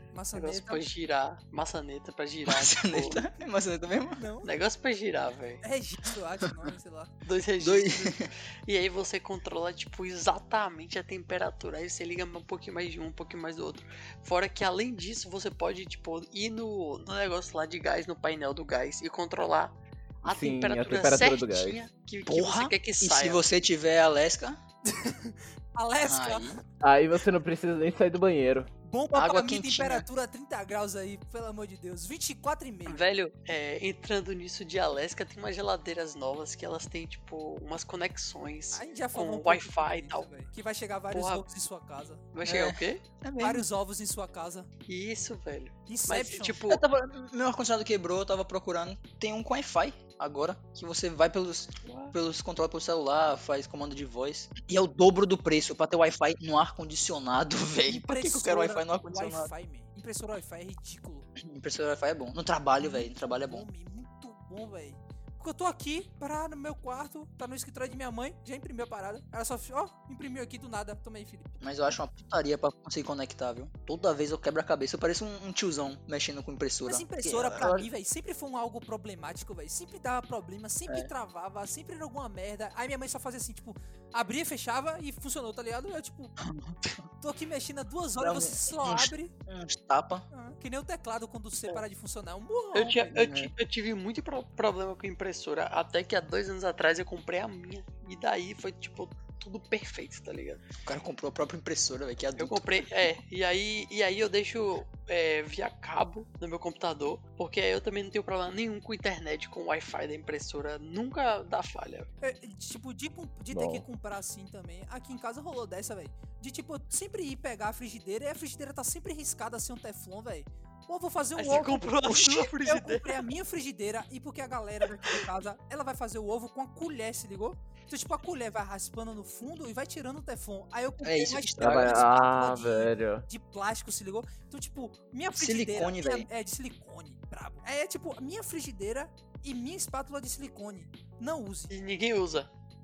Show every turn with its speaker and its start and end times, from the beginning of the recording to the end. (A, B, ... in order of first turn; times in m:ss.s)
0:00.1-0:00.8 A
0:00.3-0:03.2 B
0:02.4-0:04.2 C
0:04.2-0:04.5 A
0:04.4-0:05.6 B
0:05.6-0:07.1 A
0:07.2-0:23.4 B
0:07.6-0:08.3 C
0:20.2-0:21.8 D
0:22.2-0:24.6 C
0:24.9-0:26.6 A
0:26.1-0:26.6 C
0:26.8-0:28.7 D
0:28.8-0:33.0 A
0:29.1-0:30.1 C
0:32.9-0:40.3 B
0:38.7-0:42.3 A
0:41.1-0:41.4 B
0:42.3-0:43.0 B
0:42.4-0:43.6 C
0:43.4-0:44.7 A
0:44.9-0:46.8 B
0:45.9-0:46.6 A
0:46.7-0:59.5 C
0:51.8-0:52.1 B
0:57.8-1:01.3 A
1:01.4-1:03.6 C
1:02.8-1:11.6 A
1:11.6-1:17.9 C
1:16.9-1:26.4 A
1:26.4-1:26.9 C
1:27.2-1:29.3 A
1:28.2-1:30.3 C
1:30.3-1:33.1 A
1:32.7-1:40.6 B
1:33.1-1:33.5 C
1:40.8-1:42.6 C
1:42.4-1:52.1 B
1:52.2-2:21.7 A
1:53.5-1:53.8 D
2:01.4-2:03.2 B
2:11.0-2:12.1 C
2:11.6-2:13.2 D
2:15.4-2:16.3 C
2:21.7-2:22.5 B